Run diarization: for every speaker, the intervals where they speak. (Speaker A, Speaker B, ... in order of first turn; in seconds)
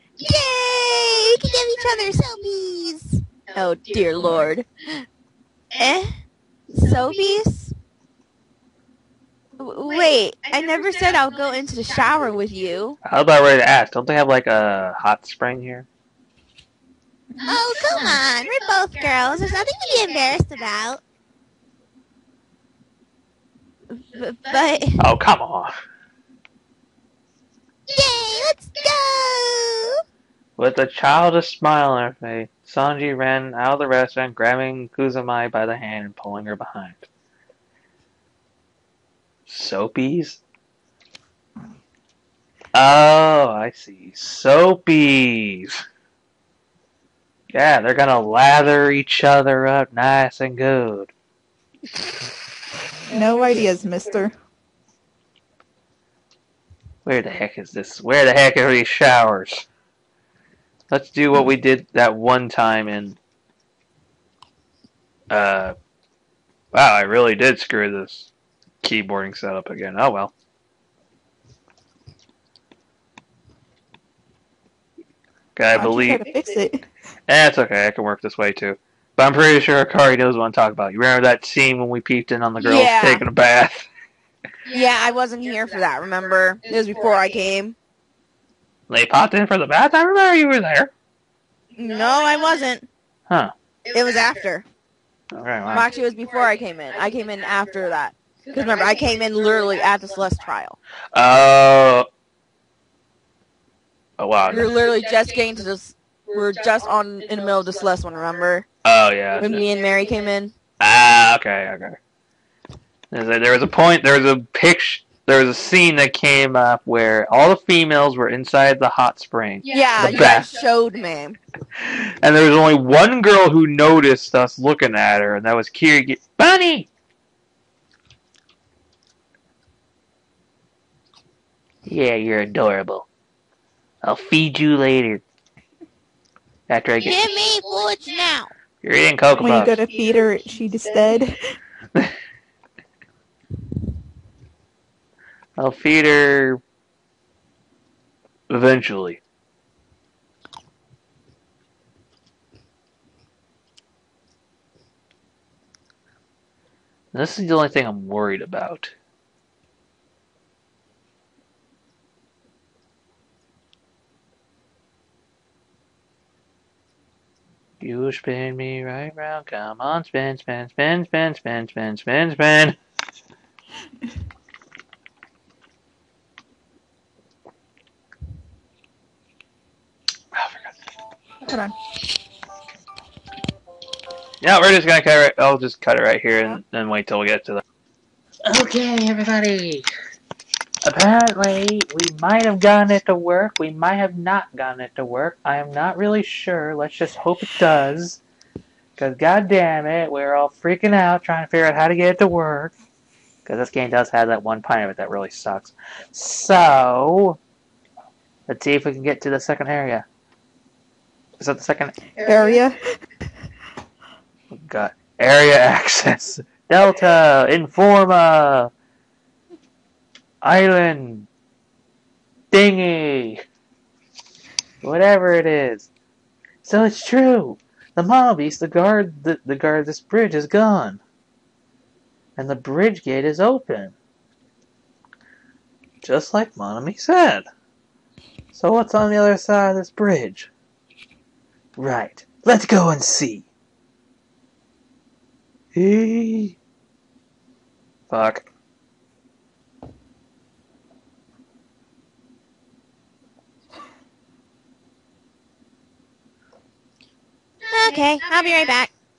Speaker A: 0.2-3.2, 5.8-6.0, 6.8-7.6, 17.4-21.0, 23.9-25.0, 27.9-30.0, 137.0-138.5, 257.7-258.9
Speaker B: 3.5-4.7, 6.8-7.7, 9.6-13.0, 82.6-83.2, 84.7-87.8, 91.8-92.9, 93.9-94.7, 95.7-100.8, 104.5-108.7, 109.4-110.5, 119.7-121.4
Speaker C: 13.0-15.9, 25.0-25.7, 30.6-37.1, 39.5-40.4, 42.7-45.8, 47.5-51.1, 57.0-59.7, 60.9-63.2, 65.3-65.7, 66.7-68.3, 68.8-70.3, 75.6-76.2, 77.3-83.9, 88.9-90.9, 95.3-95.9, 101.1-102.1, 104.2-104.7, 108.8-109.6, 110.8-112.0, 113.1-120.5, 121.8-126.9, 131.9-133.1, 134.0-135.2, 136.7-137.2, 138.8-139.8, 145.6-146.6, 148.5-149.2, 157.1-158.9, 167.8-172.8, 180.3-180.8, 184.4-187.6, 188.4-189.9, 190.8-198.2, 199.0-202.7, 203.5-207.4, 208.5-210.1, 211.4-212.0, 214.5-218.7, 220.4-221.3, 222.5-223.4, 224.8-225.9, 226.6-231.0, 232.4-233.9, 236.0-237.5, 238.5-240.5, 241.8-243.5, 245.7-246.6, 248.1-248.5
Speaker D: 53.1-54.3, 75.8-76.8, 139.4-141.6, 181.4-181.8, 212.2-212.8